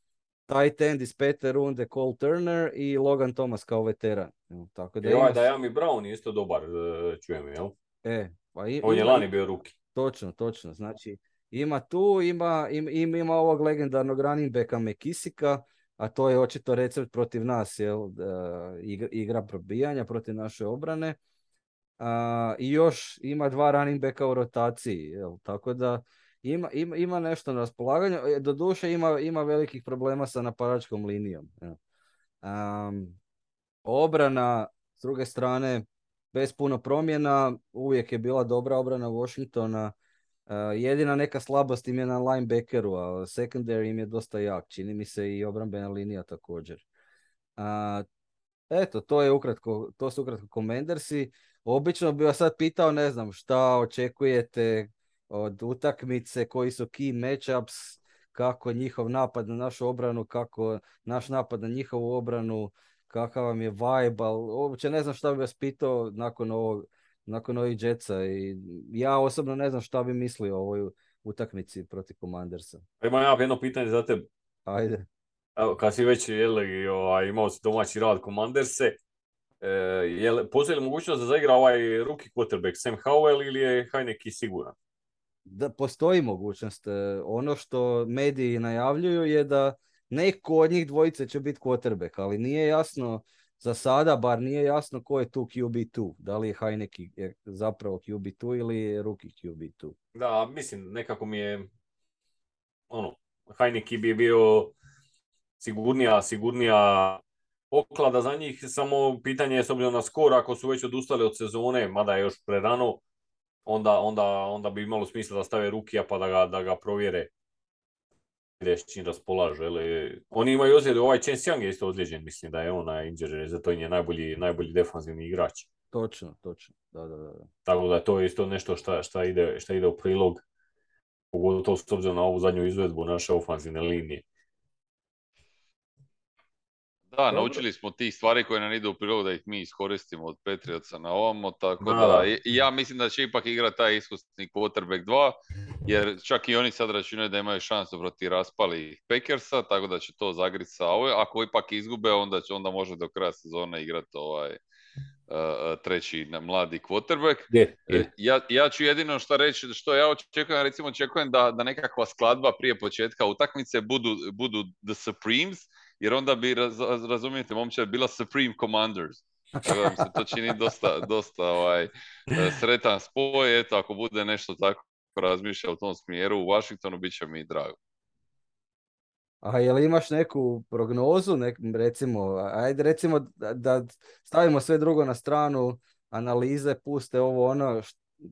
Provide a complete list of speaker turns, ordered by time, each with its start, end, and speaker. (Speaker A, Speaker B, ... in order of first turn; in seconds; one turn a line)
Speaker A: 0.5-5.4
Speaker B: 5.0-7.7
Speaker A: 8.0-9.2
Speaker B: 8.8-9.7
Speaker A: 9.9-21.2
Speaker A: 22.0-31.8
Speaker A: 32.4-33.2
Speaker A: 33.8-39.9
Speaker A: 40.5-46.8
Speaker A: 47.6-48.0
Speaker A: 48.7-72.8
Speaker B: 73.0-74.2
Speaker A: 74.7-75.0
Speaker B: 75.6-79.0
Speaker B: 79.6-84.7
Speaker A: 85.5-99.9
Speaker B: 100.2-101.7
Speaker B: 102.9-104.7
Speaker B: 105.6-113.0
Speaker B: 113.7-117.3
Speaker B: 118.6-125.7
Speaker A: 125.9-127.5
Speaker B: 127.7-130.4
Speaker B: 131.3-134.2
Speaker C: 137.1-154.6
Speaker B: 137.3-137.6
Speaker B: 141.8-142.3
Speaker C: 155.3-177.8
Speaker B: 157.5-158.1
Speaker A: 169.9-170.2
Speaker A: 179.4-188.0